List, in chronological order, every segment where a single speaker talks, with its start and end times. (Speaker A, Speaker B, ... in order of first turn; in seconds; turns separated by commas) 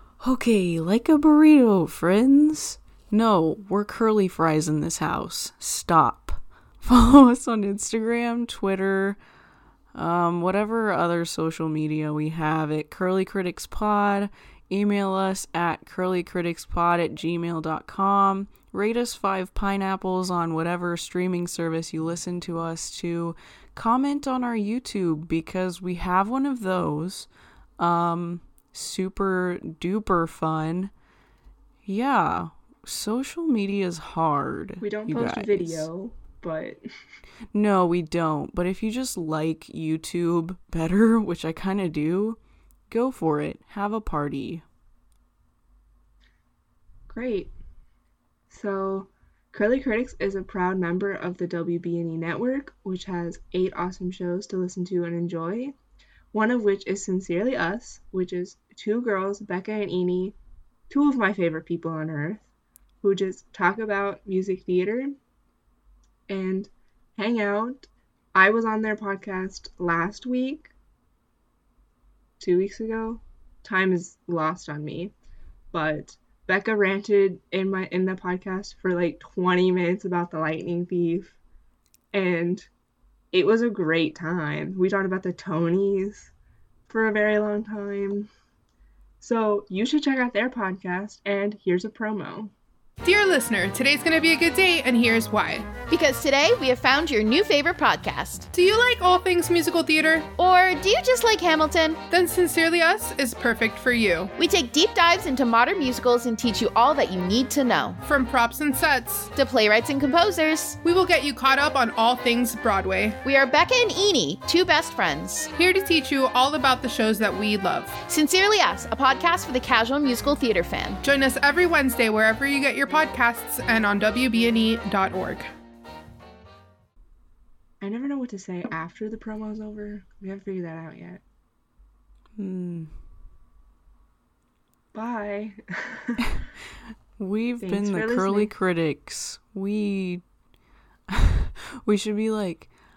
Speaker A: 0.2-9.2, Speaker A: 9.9-30.9, Speaker A: 31.8-35.9, Speaker B: 34.8-36.8, Speaker A: 37.5-44.6, Speaker B: 47.1-47.5, Speaker B: 48.5-55.7, Speaker B: 56.3-60.3, Speaker B: 60.9-62.5, Speaker B: 63.0-65.2, Speaker B: 66.3-70.7, Speaker B: 72.4-75.1, Speaker B: 75.7-81.4, Speaker B: 82.1-82.7, Speaker B: 83.3-86.3, Speaker B: 86.9-88.3, Speaker B: 89.2-92.5, Speaker C: 93.0-95.8, Speaker D: 95.9-98.5, Speaker C: 98.5-100.3, Speaker D: 100.3-102.0, Speaker C: 102.1-104.3, Speaker D: 104.4-108.0, Speaker C: 108.0-109.3, Speaker D: 109.3-110.8, Speaker C: 110.8-113.2, Speaker D: 113.2-115.5, Speaker C: 115.5-118.0, Speaker D: 118.1-121.0, Speaker C: 121.0-125.5, Speaker B: 127.8-131.2, Speaker A: 132.3-132.9, Speaker B: 134.9-136.3, Speaker A: 137.2-140.2, Speaker B: 137.6-138.5, Speaker A: 141.1-142.7